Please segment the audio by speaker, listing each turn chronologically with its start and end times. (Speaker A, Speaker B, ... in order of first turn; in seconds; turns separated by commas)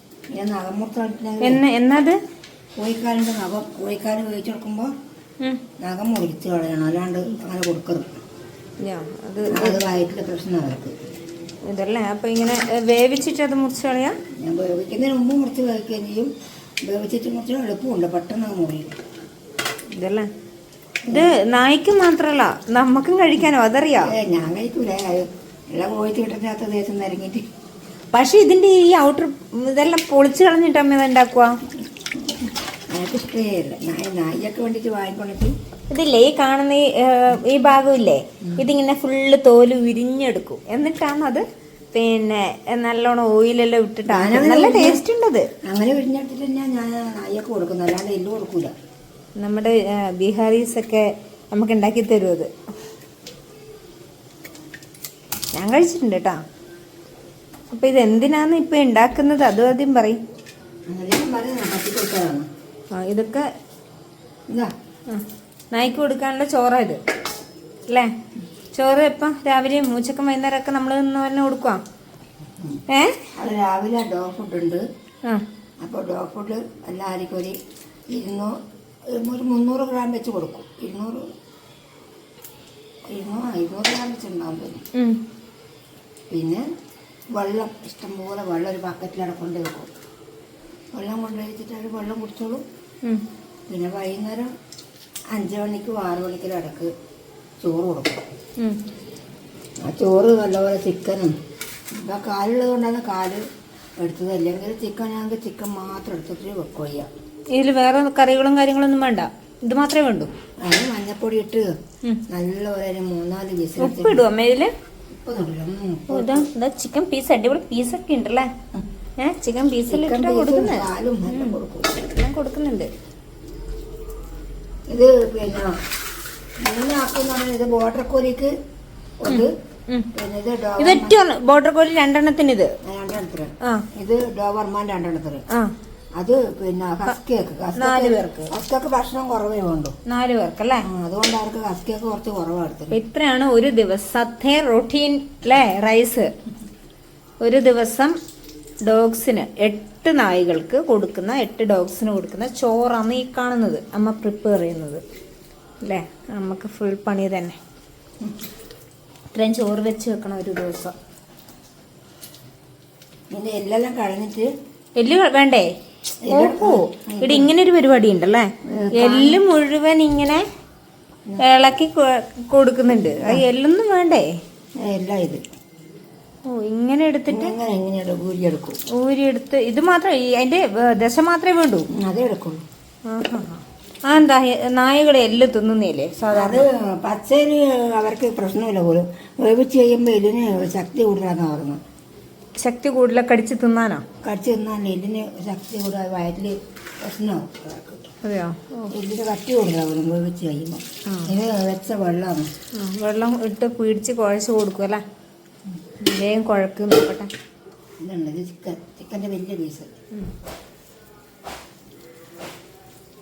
Speaker A: 0.3-1.6, Speaker B: 1.4-2.2, Speaker A: 2.8-4.9, Speaker A: 5.8-8.2, Speaker B: 8.8-9.8, Speaker A: 9.5-10.9, Speaker B: 11.7-14.2, Speaker A: 14.3-19.0, Speaker B: 19.9-20.3, Speaker A: 21.1-21.4, Speaker B: 21.1-24.1, Speaker A: 24.0-27.5, Speaker B: 28.1-31.6, Speaker A: 32.2-35.5, Speaker B: 35.9-45.5, Speaker A: 44.1-45.0, Speaker A: 45.6-48.7, Speaker B: 49.4-52.5, Speaker B: 55.5-56.4, Speaker B: 57.7-60.2, Speaker A: 60.9-62.5, Speaker B: 62.9-63.5, Speaker B: 65.1-67.0, Speaker B: 68.7-71.8, Speaker B: 72.9-73.3, Speaker A: 73.3-74.8, Speaker A: 75.8-77.6, Speaker A: 78.1-81.3, Speaker A: 83.1-84.8, Speaker B: 84.9-85.2, Speaker A: 86.3-86.6, Speaker A: 87.3-89.9, Speaker A: 90.9-92.6, Speaker A: 93.7-94.5, Speaker A: 95.3-96.9, Speaker A: 97.6-98.2, Speaker B: 98.6-98.8, Speaker A: 99.8-101.3, Speaker A: 101.9-103.4, Speaker A: 104.0-107.1, Speaker B: 107.5-110.3, Speaker A: 110.6-111.7, Speaker A: 112.3-114.2, Speaker B: 113.8-114.7, Speaker A: 115.1-116.5, Speaker B: 116.1-118.5, Speaker B: 119.2-121.6, Speaker A: 119.9-122.0, Speaker B: 122.1-122.9, Speaker A: 124.9-125.8, Speaker A: 126.6-128.5, Speaker A: 129.2-129.5, Speaker B: 129.3-130.1, Speaker A: 130.1-131.2, Speaker B: 130.8-132.7, Speaker A: 132.8-135.4, Speaker A: 136.2-139.9, Speaker B: 137.8-138.5, Speaker B: 140.1-140.8, Speaker A: 140.8-143.0, Speaker B: 142.9-146.3, Speaker B: 147.4-148.2, Speaker B: 148.8-155.0, Speaker B: 155.8-157.6, Speaker B: 159.3-160.9, Speaker A: 163.3-164.5, Speaker B: 165.0-165.7, Speaker A: 166.2-167.5, Speaker B: 166.3-170.4, Speaker A: 168.6-169.4, Speaker B: 171.4-174.4, Speaker A: 173.0-173.4, Speaker A: 174.8-175.4, Speaker B: 176.4-177.5, Speaker A: 177.3-178.8, Speaker B: 178.9-181.9, Speaker A: 181.9-182.6, Speaker B: 183.1-186.7, Speaker A: 186.3-191.8, Speaker B: 192.6-194.0, Speaker A: 194.2-198.1, Speaker B: 198.2-198.9, Speaker A: 198.9-202.5, Speaker B: 201.1-201.3, Speaker B: 202.7-205.0, Speaker B: 206.0-207.3, Speaker A: 208.0-210.0